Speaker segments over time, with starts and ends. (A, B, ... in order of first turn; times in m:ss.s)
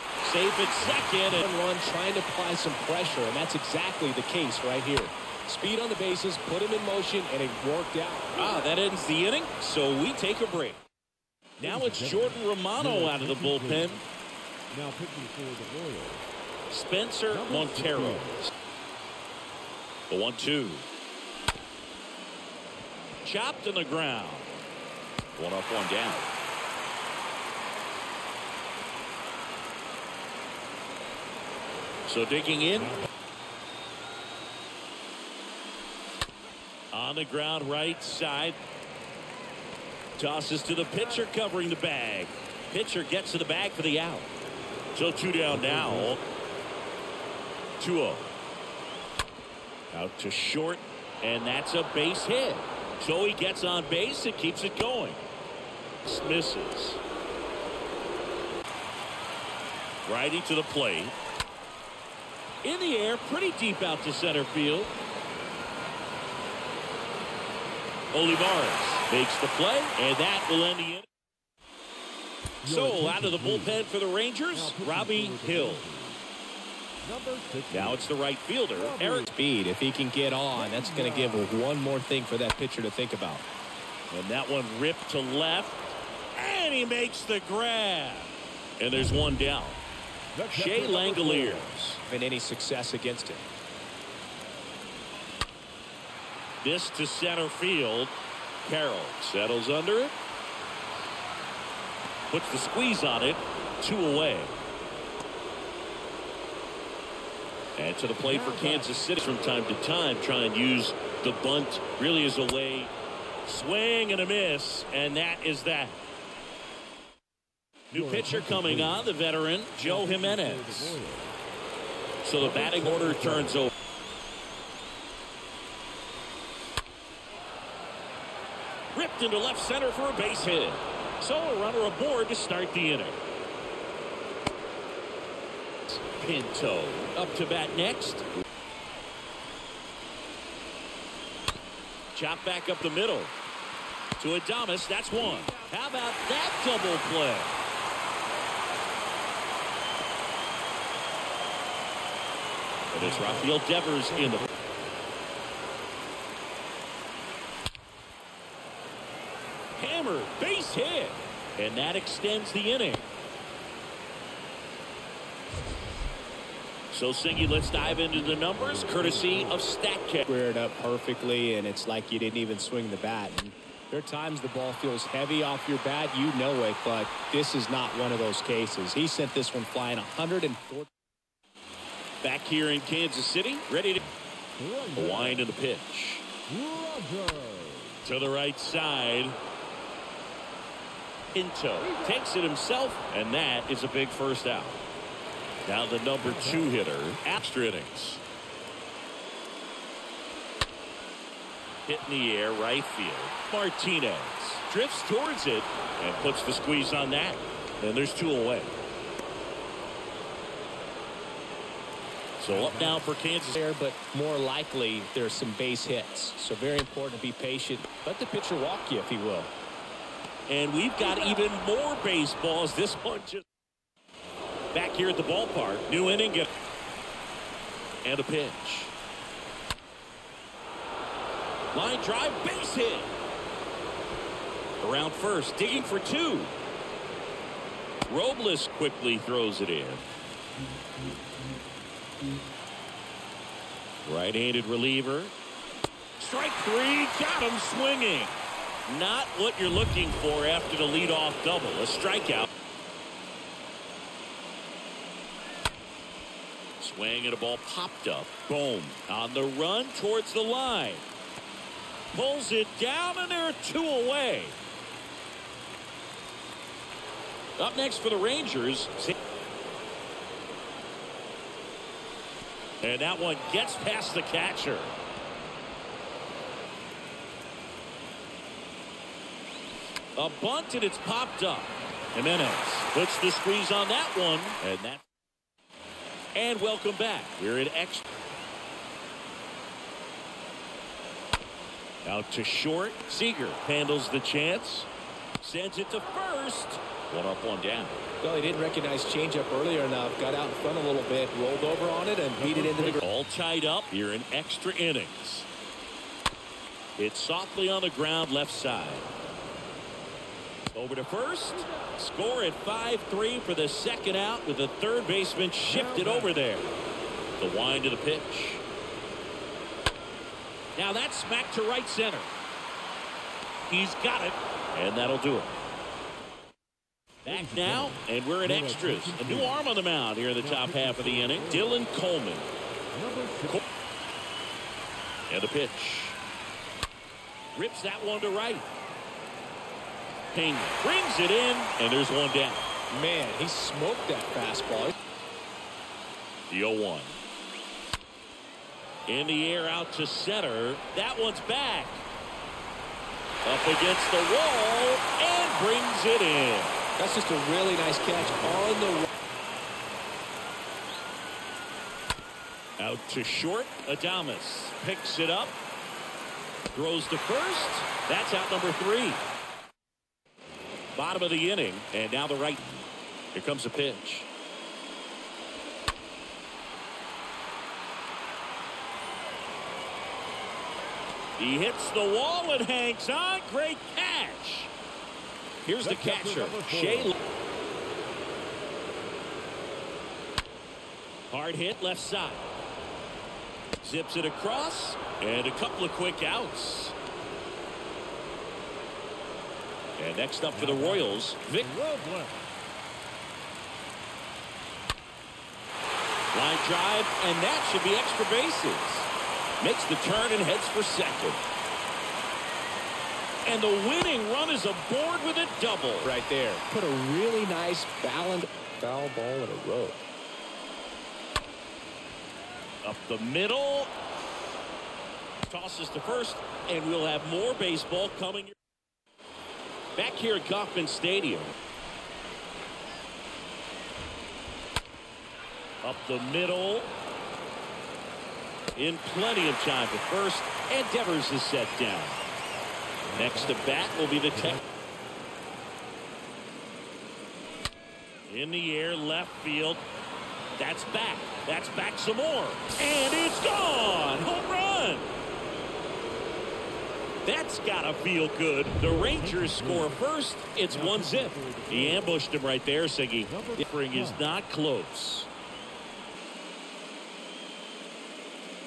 0:00.2-0:01.4 A
0:01.4-0:08.3 B
0:08.4-0:10.8 A
0:11.6-0:14.0 A
0:11.6-0:14.0 C
0:14.7-0:16.2 C
0:16.7-0:18.5 A
0:17.3-0:18.3 C
0:20.1-0:20.9 A
0:23.2-0:24.5 A
0:25.4-0:26.2 A
0:32.1-0:33.0 A
0:36.9-0:38.6 A
0:40.2-0:44.3 A
0:45.0-0:46.2 A
0:45.5-0:46.2 C
0:47.8-0:48.3 A
0:49.9-0:55.2 A
0:56.0-0:57.0 A
1:00.1-1:01.2 A
1:02.6-1:04.9 A
1:08.1-1:11.1 A
1:12.6-1:13.8 C
1:12.6-1:15.8 A
1:14.5-1:16.2 C
1:17.0-1:18.1 C
1:17.7-1:19.3 A
1:18.8-1:19.3 C
1:19.3-1:23.4 B
1:20.5-1:21.7 C
1:24.1-1:29.8 A
1:30.3-1:31.8 C
1:30.5-1:32.0 A
1:32.1-1:33.4 B
1:36.6-1:38.1 A
1:38.6-1:40.1 A
1:42.3-1:44.6 A
1:47.8-1:52.9 A
1:48.2-1:49.0 C
1:53.5-1:56.0 A
1:57.9-2:01.0 A
1:57.9-1:59.1 C
1:59.8-2:01.3 C
2:02.2-2:03.7 A
2:02.4-2:03.6 C
2:08.9-2:13.2 A
2:15.9-2:18.3 A
2:22.1-2:23.3 A
2:24.2-2:27.6 A
2:32.9-2:34.5 A
2:33.0-2:34.5 C
2:39.8-2:43.1 A
2:46.9-2:50.2 A
2:47.8-2:49.7 C
2:50.2-3:00.9 B
3:02.2-3:04.0 A
3:04.0-3:05.5 C
3:05.0-3:06.2 A
3:06.5-3:08.0 C
3:08.0-3:09.4 A
3:11.3-3:14.8 A
3:15.7-3:18.2 A
3:16.2-3:16.7 C
3:21.9-3:28.8 A
3:32.4-3:33.6 A
3:32.5-3:33.1 C
3:33.5-3:39.5 B
3:40.5-3:43.4 A
3:44.7-3:46.5 A
3:48.0-3:48.9 A
3:51.7-3:53.1 A
3:54.8-3:56.5 A
3:58.1-4:00.1 A
4:04.0-4:05.3 A
4:06.2-4:12.5 A
4:16.8-4:21.0 A
4:22.1-4:24.6 A
4:27.6-4:29.1 A
4:32.8-4:34.9 A
4:40.2-4:45.0 A
4:46.4-4:48.1 A
4:52.0-4:54.9 A
4:55.4-4:58.0 A
4:58.2-5:03.0 B
5:02.4-5:03.0 C
5:03.0-5:05.5 A
5:07.0-5:09.1 A
5:10.7-5:16.7 A
5:15.7-5:16.4 C
5:17.4-5:18.6 A
5:20.8-5:22.3 A
5:23.7-5:25.6 A
5:27.2-5:32.5 A
5:27.3-5:29.6 C
5:30.4-5:31.8 C
5:32.9-5:33.6 C
5:35.3-5:36.2 A
5:37.6-5:38.7 A
5:40.3-5:42.7 A
5:42.9-5:45.0 B
5:46.5-5:47.2 A
5:49.1-5:52.0 A
5:53.4-5:56.7 A
5:57.0-5:59.1 B
6:02.8-6:05.6 A
6:06.7-6:09.2 A
6:11.0-6:14.3 A
6:21.4-6:24.7 A
6:25.6-6:27.2 A
6:25.8-6:27.2 C
6:31.3-6:32.5 A
6:33.8-6:37.0 A
6:40.0-6:41.7 A
6:40.5-6:42.5 C
6:46.3-6:49.1 A
6:49.6-6:51.4 A
6:53.4-6:56.1 A
6:56.0-7:00.0 B
7:02.8-7:03.9 A
7:05.5-7:08.6 A
7:10.0-7:11.5 A
7:15.8-7:16.9 A
7:18.8-7:22.2 A
7:23.1-7:24.6 C
7:23.1-7:24.6 A
7:28.3-7:29.8 A
7:30.6-7:35.1 A
7:37.2-7:45.3 A
7:39.1-7:40.0 C
7:40.7-7:42.2 C
7:43.3-7:44.3 C